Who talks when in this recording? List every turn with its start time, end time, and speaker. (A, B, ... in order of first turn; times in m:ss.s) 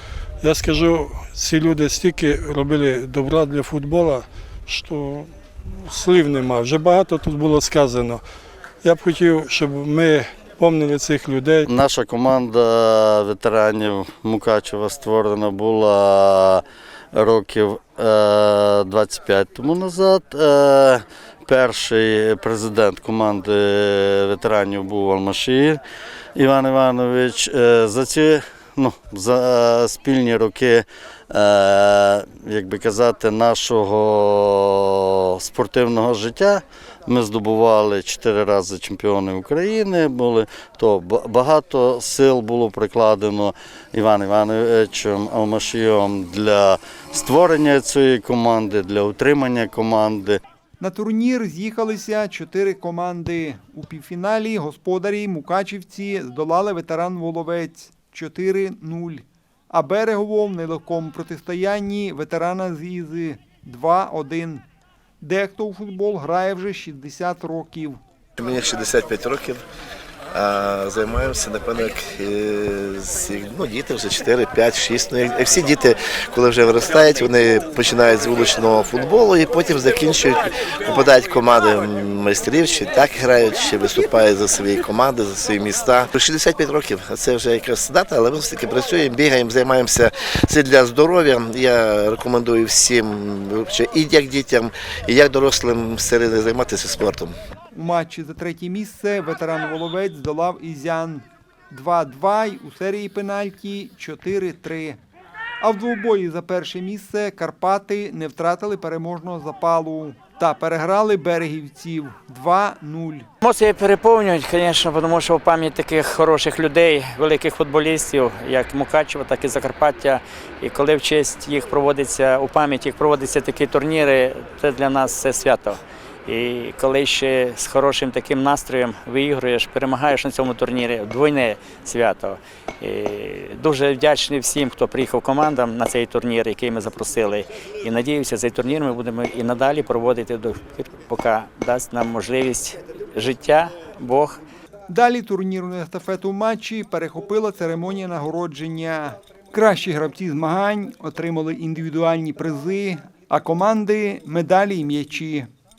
0:00.4-0:08.2 A
0:08.8-0:11.6 A
0:11.6-0:25.8 B
0:26.3-0:50.4 B
0:50.8-1:04.6 C
1:05.2-1:08.0 C
1:08.4-1:09.6 D
1:10.3-1:37.3 D
1:37.7-1:45.0 C
1:45.6-1:53.3 C
1:53.4-2:24.4 E
2:24.9-2:35.5 C